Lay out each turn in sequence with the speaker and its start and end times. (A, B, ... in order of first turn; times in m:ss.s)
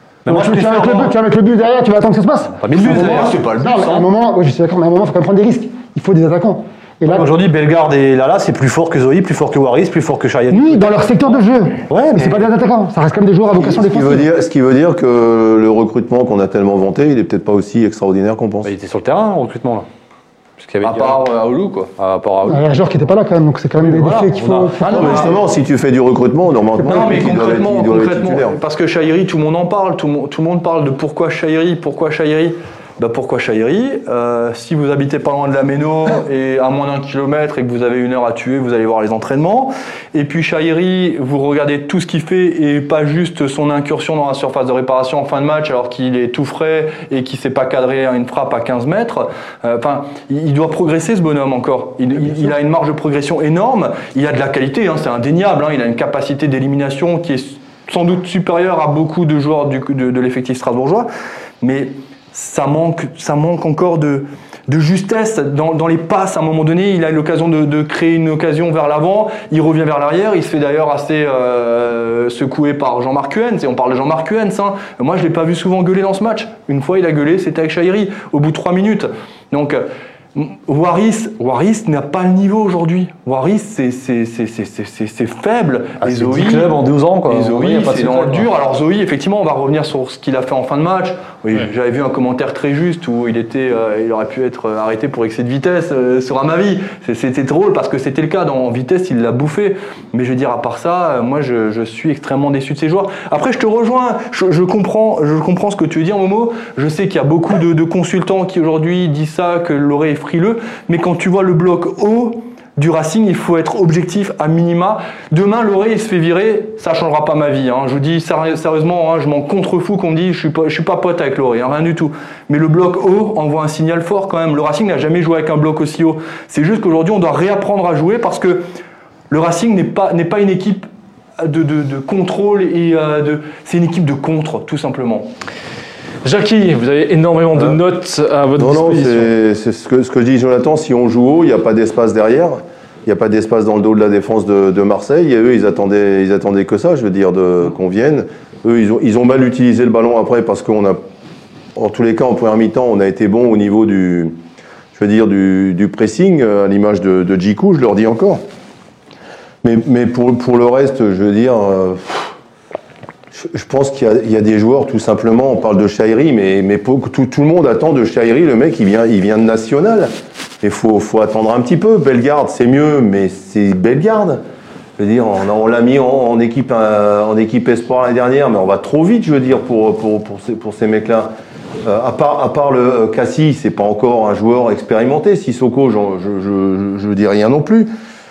0:00.2-0:01.1 A
0:00.3-0:07.3 B
0:02.6-0:03.4 A
0:02.7-0:04.1 C
0:07.0-0:12.5 A
0:10.5-0:14.3 B
0:13.6-0:18.7 D
0:18.6-0:19.9 A
0:20.6-0:21.2 A
0:20.8-0:21.9 C
0:22.0-0:22.8 A
0:22.4-0:25.3 B
0:23.8-0:24.7 A
0:24.0-0:25.4 C
0:24.9-0:28.6 D
0:26.8-1:01.1 C
1:01.6-2:08.6 C
1:26.0-1:28.5 A
2:09.3-2:15.3 C
2:16.2-2:19.3 E
2:18.6-2:31.0 D
2:31.7-2:34.4 D
2:35.0-2:38.4 D
2:39.6-2:42.3 D
2:43.3-2:54.4 D
2:55.0-3:01.3 D
3:01.8-3:07.9 D